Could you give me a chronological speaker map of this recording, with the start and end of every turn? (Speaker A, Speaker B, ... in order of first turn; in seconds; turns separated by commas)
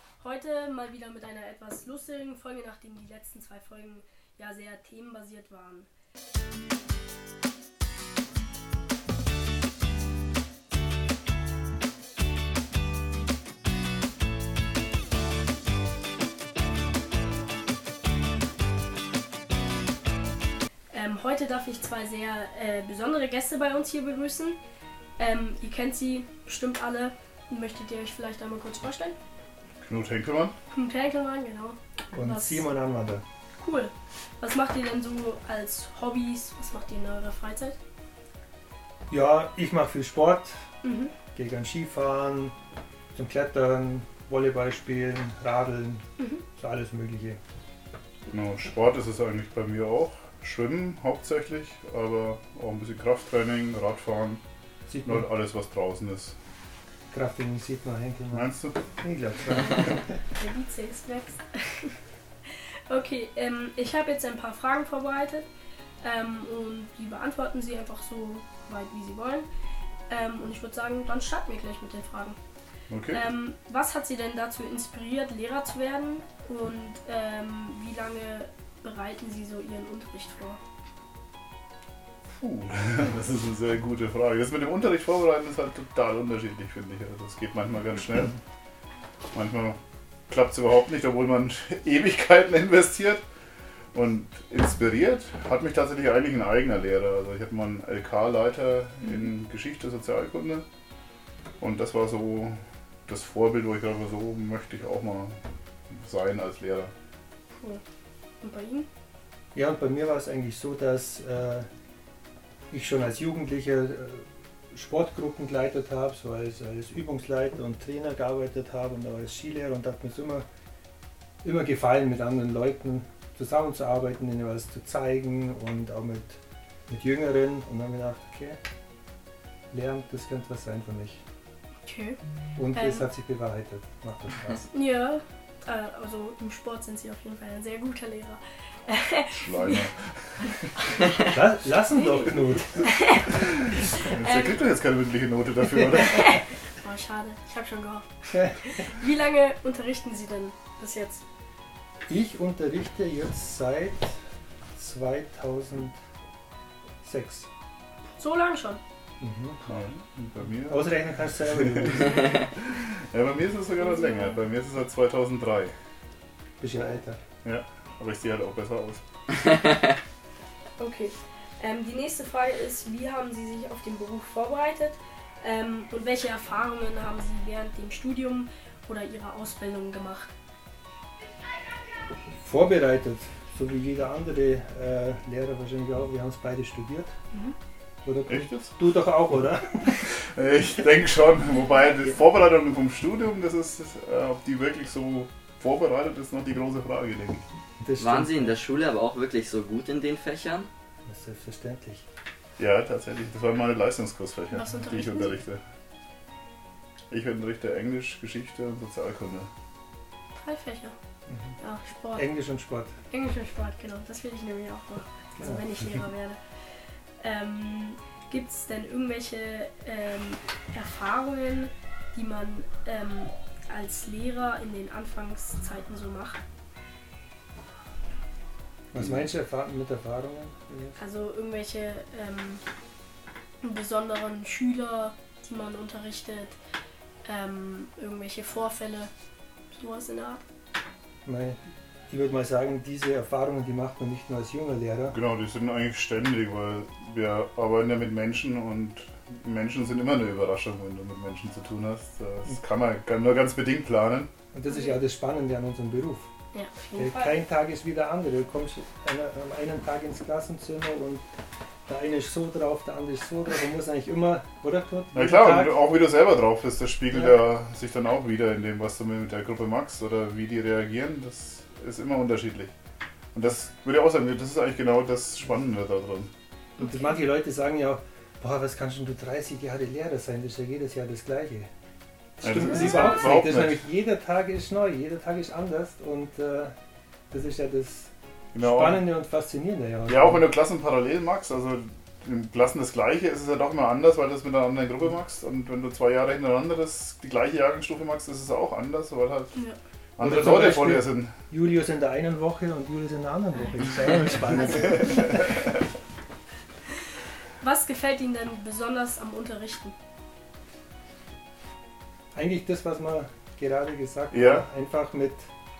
Speaker A: 0.2-5.9, Speaker A: 20.9-24.6, Speaker A: 25.2-29.1, Speaker B: 29.8-30.5, Speaker A: 30.7-32.6, Speaker C: 32.1-33.2, Speaker A: 33.6-37.8, Speaker C: 39.1-40.6, Speaker A: 40.8-41.1, Speaker C: 41.3-42.5, Speaker C: 43.1-47.4, Speaker A: 46.2-46.4, Speaker B: 48.3-54.4, Speaker C: 54.9-55.3, Speaker B: 55.0-56.3, Speaker C: 57.1-60.2, Speaker B: 58.3-58.8, Speaker A: 59.7-65.5, Speaker A: 66.0-69.5, Speaker A: 70.1-72.4, Speaker B: 72.9-73.2, Speaker A: 73.1-80.6, Speaker B: 82.4-88.3, Speaker B: 89.3-89.8, Speaker B: 90.3-93.2, Speaker B: 93.9-100.6, Speaker B: 101.6-105.4, Speaker B: 105.9-106.9, Speaker A: 108.4-108.9, Speaker C: 109.5-111.7, Speaker C: 112.7-120.5, Speaker C: 121.4-128.6, Speaker C: 129.7-131.2, Speaker A: 131.8-132.2, Speaker C: 132.6-134.7, Speaker A: 132.7-133.0, Speaker A: 134.7-139.8, Speaker B: 139.4-140.7, Speaker C: 141.3-142.9, Speaker A: 141.9-144.6, Speaker B: 144.0-146.4, Speaker A: 146.0-151.2, Speaker C: 148.3-148.7, Speaker C: 152.1-154.1, Speaker C: 154.8-155.9, Speaker C: 157.0-157.5, Speaker A: 158.2-158.8, Speaker C: 159.2-159.7, Speaker B: 159.7-165.7, Speaker C: 160.7-162.4, Speaker A: 163.8-164.4, Speaker C: 166.6-167.2, Speaker B: 167.4-169.0, Speaker A: 170.8-180.3, Speaker C: 182.4-187.1, Speaker C: 188.0-190.1, Speaker B: 188.3-188.7, Speaker B: 190.0-197.4, Speaker C: 197.8-198.5, Speaker D: 198.0-200.7, Speaker C: 201.1-202.0, Speaker B: 202.6-205.6, Speaker A: 204.5-205.4, Speaker B: 207.1-209.5, Speaker A: 210.3-210.9, Speaker C: 211.3-211.6, Speaker A: 211.6-212.2, Speaker C: 212.1-212.9, Speaker A: 213.1-216.6, Speaker C: 215.4-215.7, Speaker A: 217.2-226.4, Speaker C: 228.9-231.0, Speaker B: 228.9-229.3, Speaker A: 231.0-232.6, Speaker A: 233.6-236.6, Speaker A: 237.2-239.1, Speaker A: 239.7-240.4, Speaker C: 241.2-245.2, Speaker B: 245.1-254.3, Speaker C: 254.5-256.3, Speaker A: 254.7-255.0, Speaker A: 256.5-257.4, Speaker C: 257.0-261.2, Speaker C: 261.9-265.8, Speaker B: 265.1-272.7, Speaker C: 267.1-267.4, Speaker B: 273.3-276.3, Speaker A: 276.8-277.2, Speaker C: 276.8-281.7, Speaker C: 282.4-286.7, Speaker B: 282.4-283.8, Speaker C: 287.3-290.4, Speaker B: 288.5-289.0, Speaker B: 290.1-299.6, Speaker B: 300.2-301.3, Speaker C: 300.2-305.6, Speaker A: 307.6-309.9, Speaker C: 312.3-315.4, Speaker B: 314.3-314.6